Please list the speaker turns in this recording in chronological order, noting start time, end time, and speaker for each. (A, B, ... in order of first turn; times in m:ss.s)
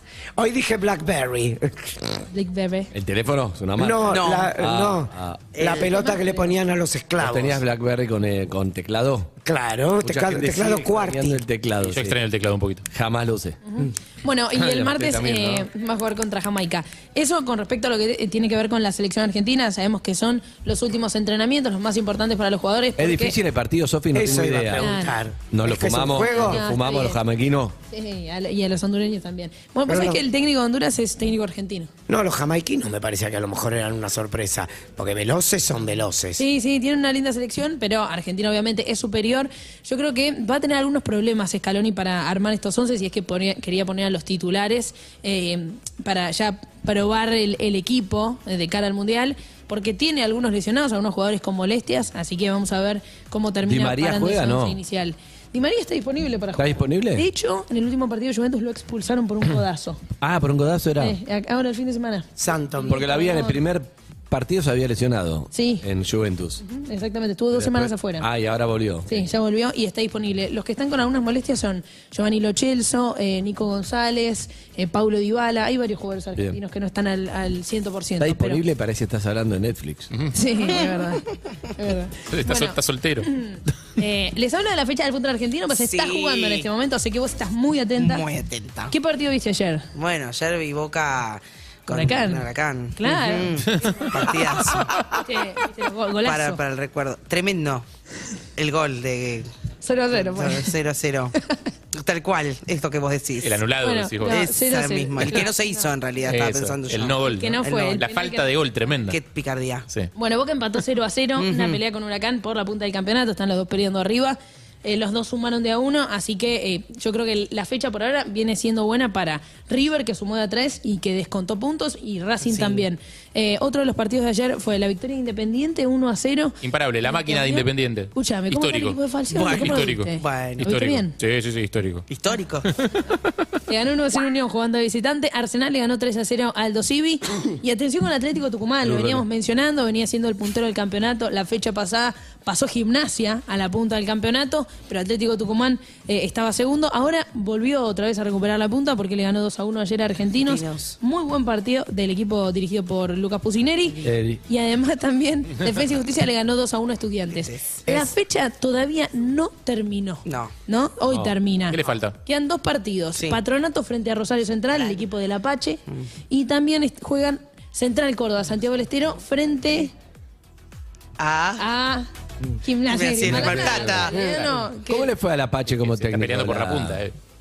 0:00.4-0:02.2 A
0:02.3-0:02.9 B
0:02.9-0:05.4 C
0:03.8-0:07.6 A
0:04.0-0:04.5 D
0:05.5-0:05.9 D
0:05.9-0:06.6 B
0:07.2-0:09.3 C
0:09.4-0:11.4 A
0:10.0-0:12.2 C
0:11.8-0:12.8 E
0:12.9-0:13.8 C
0:13.7-0:23.4 B
0:14.6-0:15.6 C
0:23.0-0:24.9 C
0:24.1-0:26.6 A
0:24.8-0:25.2 B
0:25.5-0:27.7 C
0:26.3-0:27.2 B
0:27.9-0:31.9 B
0:29.9-0:30.2 A
0:32.1-0:36.4 A
0:36.4-1:00.0 B
0:53.6-0:54.8 C
0:56.6-0:57.3 C
1:00.2-1:01.2 C
1:01.0-1:03.6 B
1:02.4-1:03.0 A
1:02.9-1:06.6 C
1:05.5-1:05.8 B
1:06.6-1:08.2 B
1:07.5-1:09.3 C
1:09.1-1:18.6 B
1:18.2-1:20.1 C
1:20.3-1:28.2 B
1:20.8-1:21.3 D
1:22.2-1:23.3 E
1:25.7-1:26.7 D
1:28.0-1:28.9 D
1:28.9-1:29.8 B
1:29.9-1:34.9 D
1:31.9-1:34.1 B
1:35.2-1:36.6 B
1:36.2-1:37.8 D
1:38.6-1:39.5 D
1:39.8-1:40.7 B
1:40.1-1:41.3 D
1:41.9-1:43.6 D
1:43.4-1:44.4 E
1:43.8-1:45.9 B
1:44.2-1:48.0 D
1:46.2-1:49.2 E
1:47.2-1:48.5 B
1:49.1-1:49.9 D
1:50.1-2:11.1 B
1:51.4-1:51.8 D
2:02.4-2:02.9 D
2:06.6-2:09.0 E
2:09.3-2:10.7 D
2:09.5-2:12.1 E
2:12.1-2:12.7 D
2:12.6-2:13.0 E
2:13.7-2:49.9 B
2:18.8-2:19.2 C
2:30.4-2:31.0 D
2:34.0-2:34.4 C
2:37.2-2:37.8 D
2:37.8-2:38.1 A
2:40.2-2:40.5 D
2:41.7-2:42.2 E
2:51.2-2:51.6 D
2:51.6-2:52.0 B
2:52.6-2:55.1 B
2:52.8-2:54.2 D
2:53.2-2:57.0 C
2:55.8-2:57.2 E